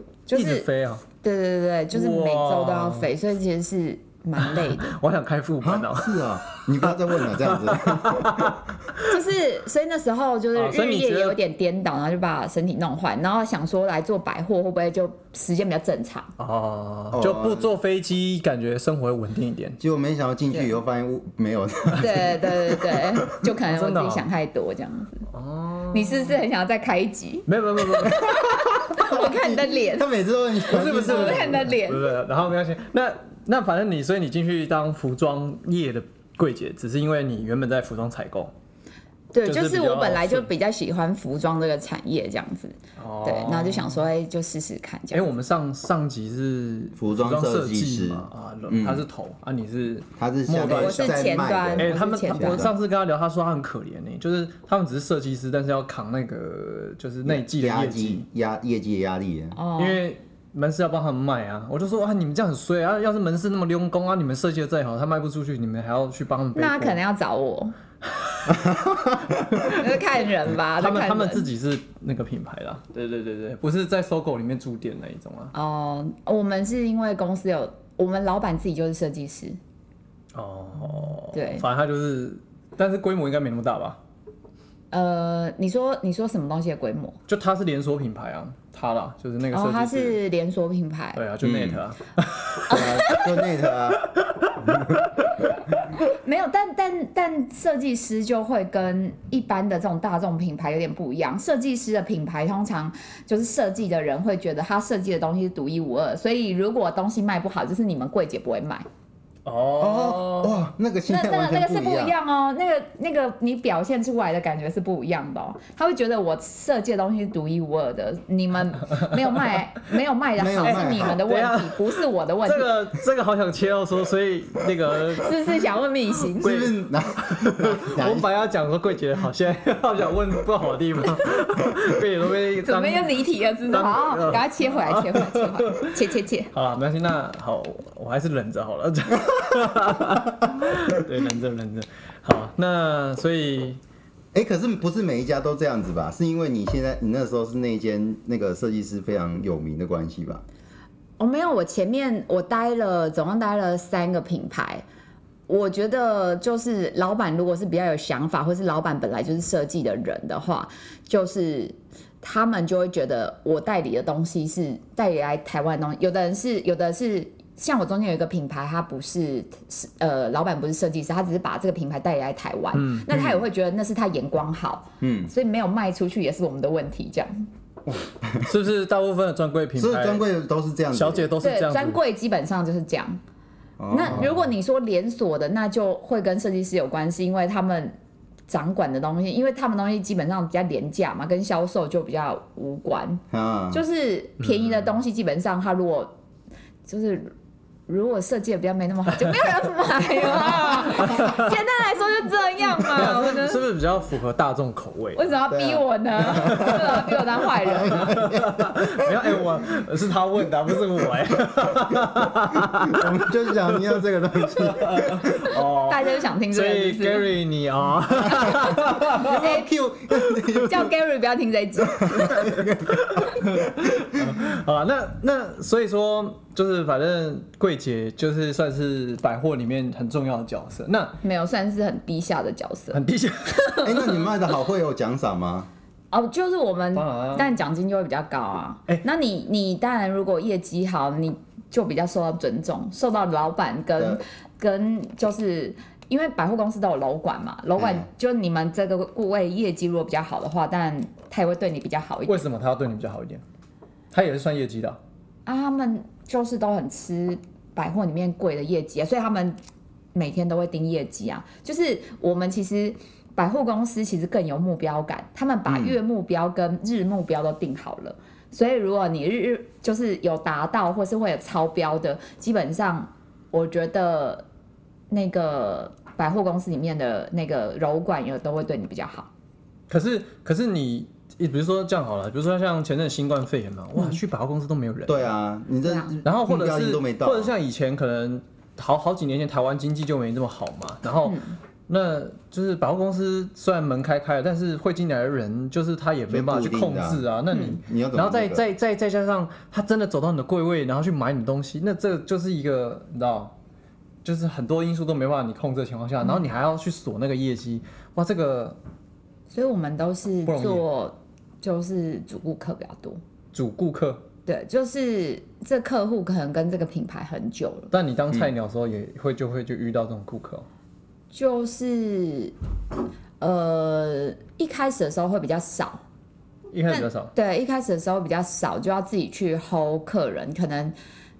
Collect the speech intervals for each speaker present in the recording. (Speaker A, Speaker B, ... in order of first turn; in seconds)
Speaker A: 0.3-0.7, 1.2-5.0, 9.1-16.3, 21.9-25.3, 25.9-30.1, 30.7-32.1, 39.3-45.3, 50.6-52.7, 59.5-60.0, 66.6-67.8, 69.7-71.5, 75.5-79.6, 81.3-81.7, 84.9-87.2, 89.5-91.2, 96.0-108.9, 111.1-122.7, 125.2-126.7, 132.6-136.5, 151.2-154.8, 155.5-177.5, 181.4-183.2, 183.9-187.9, 188.5-196.1, 196.9-197.3, 197.9-203.6, 205.2-208.2, 215.8-217.3, 219.1-219.7, 220.5-222.5, 231.2-233.0, 236.1-252.4, 255.5-259.6, 260.1-274.4, 275.1-279.3, 285.9-286.1, 291.2-291.6, 297.5-297.8, 309.5-313.2, 314.5-317.9, 321.3-322.5, 323.4-326.0, 326.9-330.9
Speaker B: 0.3-1.0, 1.9-3.1, 4.4-8.6, 10.6-11.4, 16.4-19.8, 23.6-24.3, 25.3-26.4, 27.5-28.4, 30.7-38.5, 39.5-40.5, 43.0-44.1, 45.1-51.2, 51.8-58.2, 59.8-67.0, 68.2-68.5, 69.5-69.8, 70.8-75.5, 80.3-84.0, 87.3-90.2, 91.2-94.8, 109.5-110.6, 120.6-125.3, 126.4-135.9, 136.5-143.8, 172.7-173.1, 178.4-180.2, 180.9-182.0, 194.4-194.9, 201.0-201.4, 202.8-205.3, 206.3-207.2, 207.9-213.2, 214.5-219.5, 222.6-231.2, 232.9-234.3, 236.9-237.5, 252.3-253.4, 254.1-255.0, 279.9-285.3, 286.2-303.5, 304.2-308.8, 310.5-310.9, 313.5-314.2, 317.9-320.7, 326.7-327.3
Speaker C: 5.6-8.6, 17.1-17.7, 19.8-23.3, 28.3-31.8, 47.0-49.0, 50.2-52.7, 57.2-59.6, 68.5-69.7, 91.4-91.8, 92.7-94.1, 94.6-95.0, 109.8-112.2, 120.4-121.2, 126.4-128.3, 144.3-150.4, 173.1-173.4, 175.0-175.3, 177.9-178.5, 179.8-181.3, 183.8-184.4, 193.3-193.8, 205.5-209.5, 212.6-215.4, 218.5-220.9, 222.0-224.3, 233.8-235.7, 247.8-248.1, 265.7-266.0, 285.1-287.5, 296.3-298.6